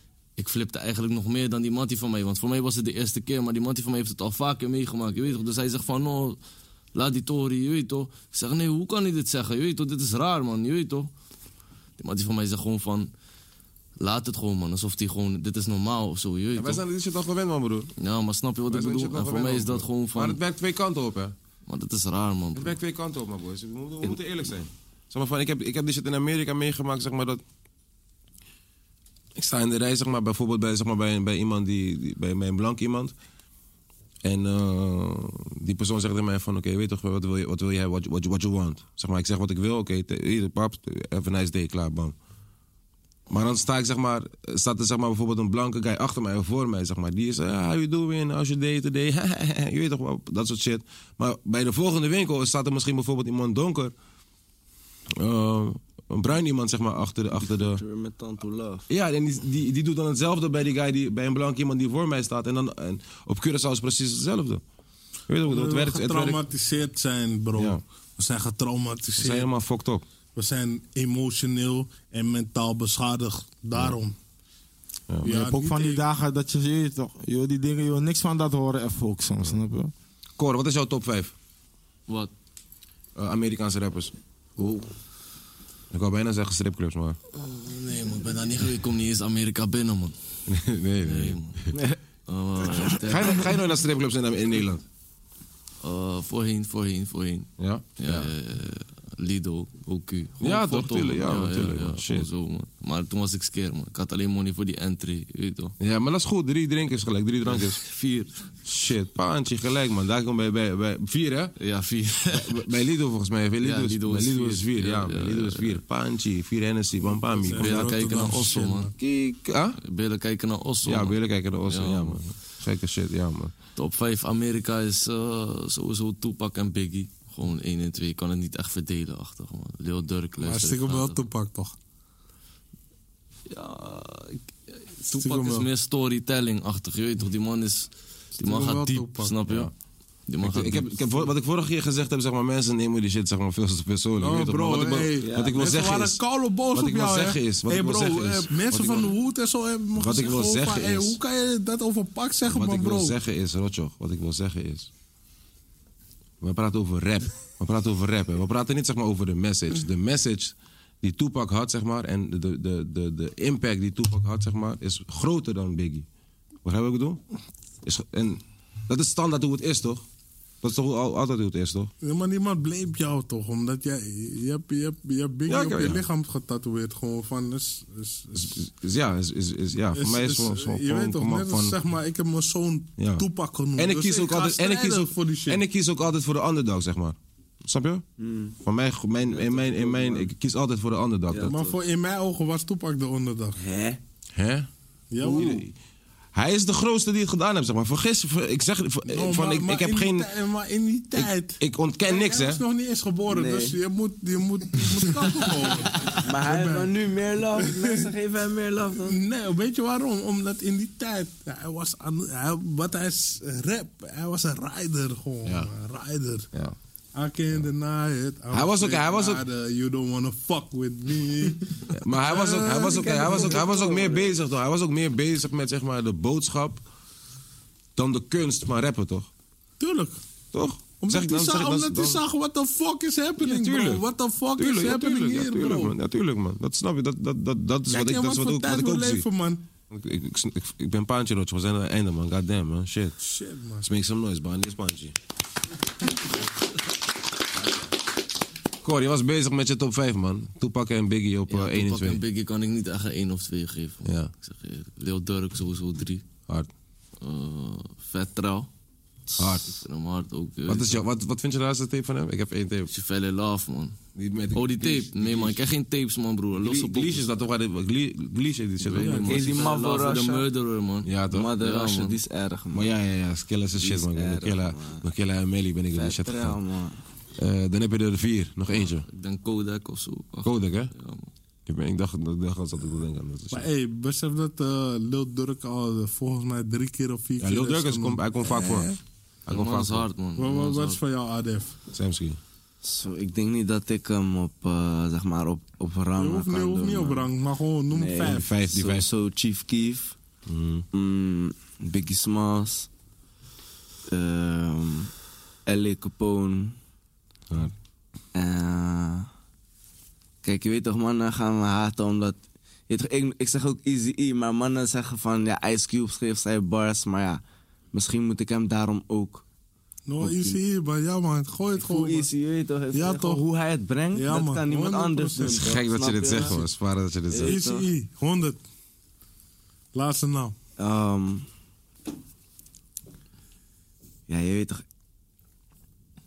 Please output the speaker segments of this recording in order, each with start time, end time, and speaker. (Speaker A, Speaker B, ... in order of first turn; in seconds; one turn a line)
Speaker A: 0.4-6.4
Speaker A: 7.0-11.1
Speaker A: 12.0-13.1
Speaker A: 14.0-16.8
Speaker B: 16.6-17.9
Speaker A: 18.0-20.4
Speaker B: 18.7-21.4
Speaker A: 21.7-22.8
Speaker B: 22.6-27.4
Speaker B: 29.4-33.1
Speaker B: 34.2-42.1
Speaker B: 43.3-53.9
Speaker B: 55.1-57.8
Speaker C: 57.4-58.9
Speaker B: 58.9-64.6
Speaker B: 65.3-66.4
Speaker D: 65.5-69.5
Speaker B: 69.2-70.0
Speaker D: 70.3-74.2
Speaker D: 75.2-76.0
Speaker E: 75.2-79.9
Speaker B: 80.4-81.3
Speaker A: 82.1-82.3
Speaker B: 83.2-84.1
Speaker C: 84.6-84.9
Speaker B: 85.9-87.2
Speaker A: 87.3-90.2
Speaker B: 90.5-91.7
Speaker A: 91.0-91.7
Speaker A: 92.3-93.5
Speaker B: 92.9-94.8
Speaker A: 95.8-105.7
Speaker B: 97.6-98.3
Speaker B: 100.4-102.3
Speaker B: 105.8-107.8
Speaker A: 107.4-108.5
Speaker B: 108.7-111.5
Speaker A: 111.6-112.6
Speaker B: 112.3-117.9
Speaker A: 113.6-115.8
Speaker D: 117.1-118.9
Speaker A: 117.6-118.9
Speaker B: 119.0-119.8
Speaker A: 119.8-122.2
Speaker B: 120.8-123.5
Speaker A: 123.8-131.2
Speaker D: 130.4-131.8
Speaker A: 133.5-139.7
Speaker D: 135.1-135.7
Speaker D: 138.4-139.3
Speaker A: 140.3-141.3
Speaker B: 140.4-149.1
Speaker D: 144.2-153.2
Speaker C: 145.2-145.5
Speaker B: 149.9-151.2
Speaker B: 152.5-154.9
Speaker B: 156.4-166.1
Speaker B: 166.6-167.2
Speaker B: 167.8-170.1
Speaker B: 170.6-171.9
Speaker D: 172.0-178.6
Speaker B: 175.5-176.0
Speaker B: 178.4-181.8
Speaker D: 179.9-185.6
Speaker B: 183.0-188.1
Speaker C: 188.2-188.6
Speaker B: 188.6-191.5
Speaker C: 189.3-190.3
Speaker C: 191.3-191.8
Speaker D: 191.5-193.6
Speaker C: 193.6-194.0
Speaker B: 194.3-194.7
Speaker D: 195.1-195.7
Speaker B: 195.2-195.7
Speaker B: 196.3-200.3
Speaker D: 199.0-206.9
Speaker B: 201.2-202.6
Speaker C: 203.3-203.8
Speaker C: 206.1-209.2
Speaker D: 207.6-208.1
Speaker D: 208.9-216.5
Speaker B: 215.4-215.7
Speaker D: 217.2-223.8
Speaker B: 218.5-219.4
Speaker B: 221.9-226.8
Speaker C: 222.8-224.3
Speaker B: 227.9-229.3
Speaker D: 229.8-230.2
Speaker B: 230.5-232.2
Speaker D: 231.0-235.9
Speaker B: 233.4-239.3
Speaker D: 237.9-239.7
Speaker B: 239.9-243.2
Speaker D: 243.2-243.9
Speaker B: 243.8-245.2
Speaker B: 248.8-252.2
Speaker A: 251.5-256.2
Speaker B: 254.1-254.3
Speaker A: 257.2-258.7
Speaker A: 259.3-261.0
Speaker B: 259.4-259.8
Speaker B: 260.7-262.9
Speaker A: 262.9-264.0
Speaker B: 264.1-265.6
Speaker A: 264.5-267.2
Speaker B: 266.6-269.6
Speaker A: 268.8-272.2
Speaker D: 269.0-269.5
Speaker C: 269.2-270.5
Speaker B: 271.0-271.5
Speaker C: 271.3-272.9
Speaker B: 272.7-276.6
Speaker C: 273.7-275.1
Speaker C: 275.9-277.0
Speaker B: 277.4-279.1
Speaker A: 278.8-281.3
Speaker B: 280.4-280.9
Speaker B: 281.6-283.7
Speaker D: 283.5-289.0
Speaker B: 287.4-290.1
Speaker A: 289.5-291.0
Speaker D: 290.4-291.8
Speaker B: 291.9-292.4
Speaker C: 292.8-297.3
Speaker D: 296.1-298.5
Speaker C: 297.9-300.1
Speaker B: 298.2-299.1
Speaker B: 300.5-300.9
Speaker C: 300.9-302.9
Speaker C: 304.1-305.1
Speaker C: 305.6-306.8
Speaker C: 308.3-309.3
Speaker C: 310.4-317.4
Speaker C: 317.9-319.4
Speaker D: 320.1-322.3
Speaker C: 320.2-320.6
Speaker C: 321.8-326.6
Speaker D: 322.9-323.4
Speaker D: 324.1-325.7
Speaker B: 325.6-327.6
Speaker C: 327.3-327.9
Speaker D: 327.4-328.6
Speaker D: 329.9-330.5
Speaker C: 330.8-331.5
Speaker C: 334.3-334.8